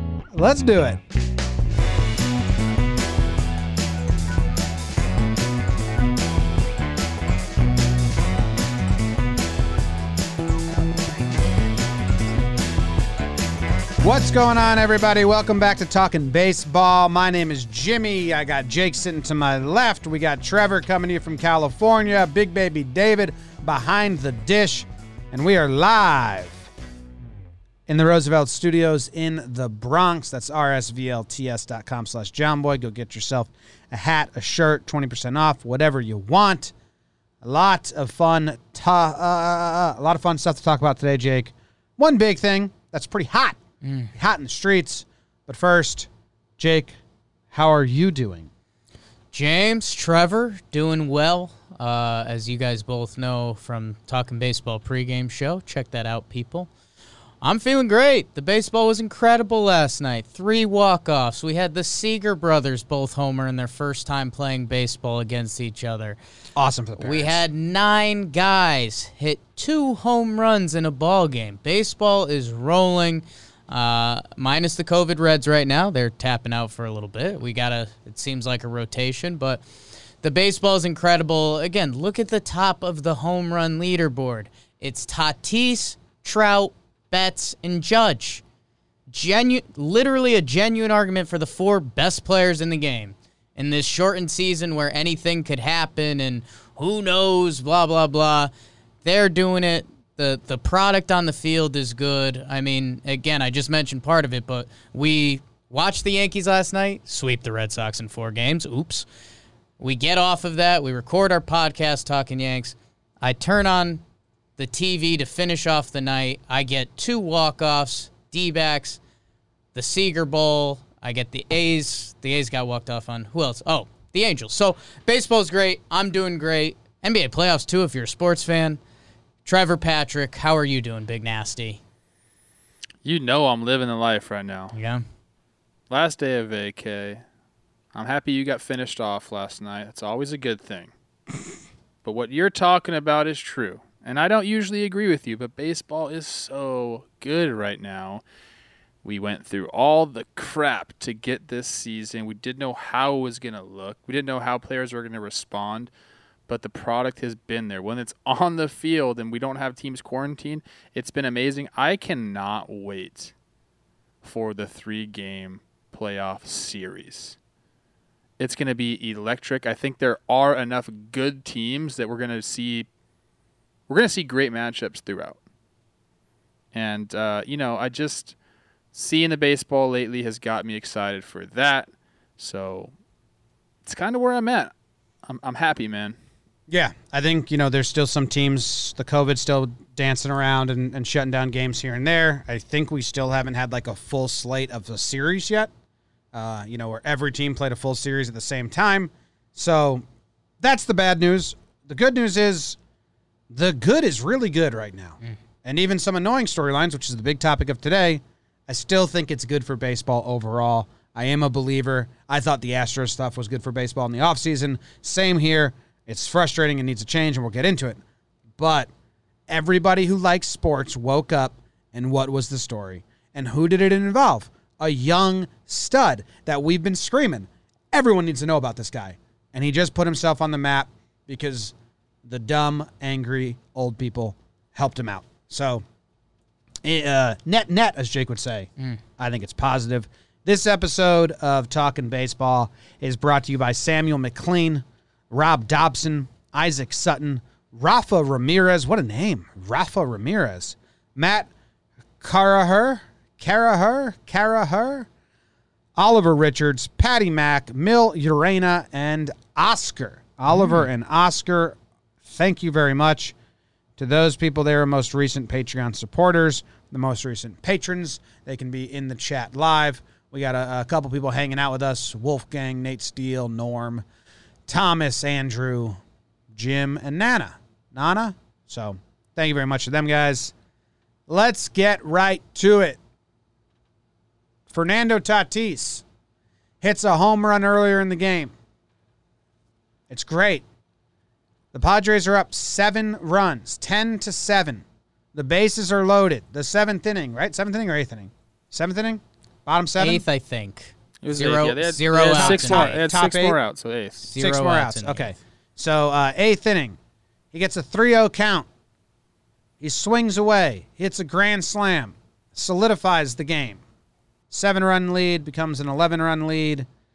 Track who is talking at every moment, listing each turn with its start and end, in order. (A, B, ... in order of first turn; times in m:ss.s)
0:00.3-0:01.0 A
0:14.0-0:26.7 A
0:27.9-0:36.7 A
0:37.4-0:43.6 A
0:43.8-0:44.1 B
0:44.1-0:47.0 A
0:47.5-0:48.5 A
0:49.3-0:56.7 B
0:57.4-1:06.2 B
1:06.6-1:07.4 A
1:07.0-1:19.6 B
1:20.2-1:28.4 B
1:29.1-1:38.5 B
1:39.0-1:49.0 B
1:49.8-1:54.0 B
1:54.6-1:59.0 B
1:59.7-2:08.8 B
2:09.4-2:11.8 B
2:13.0-2:14.7 C
2:14.7-2:15.0 B
2:15.9-2:17.2 C
2:17.9-2:20.9 C
2:22.0-2:28.2 C
2:29.0-2:35.9 C
2:36.5-2:43.3 C
2:44.2-2:47.4 C
2:48.4-2:52.9 C
2:53.9-2:55.4 C
2:56.7-2:58.3 C
2:58.9-3:02.9 C
3:03.8-3:04.7 C
3:05.2-3:06.2 C
3:06.7-3:15.7 A
3:16.3-3:20.0 A
3:20.6-3:22.8 A
3:23.5-3:38.0 A
3:38.6-3:38.9 A
3:39.5-3:55.8 A
3:56.8-4:11.5 A
4:12.2-4:15.1 A
4:16.0-4:23.3 A
4:20.5-4:20.8 B
4:24.0-4:34.0 A
4:34.7-4:36.0 A
4:36.5-4:40.5 A
4:41.3-4:43.0 A
4:44.7-4:46.0 A
4:46.8-4:48.5 A
4:50.1-4:50.6 A
4:51.7-5:00.2 A
5:00.0-5:03.0 B
5:01.2-5:04.2 C
5:02.3-5:03.6 A
5:04.2-5:05.3 B
5:04.3-5:07.0 A
5:07.5-5:08.7 A
5:09.8-5:13.8 A
5:14.5-5:16.9 A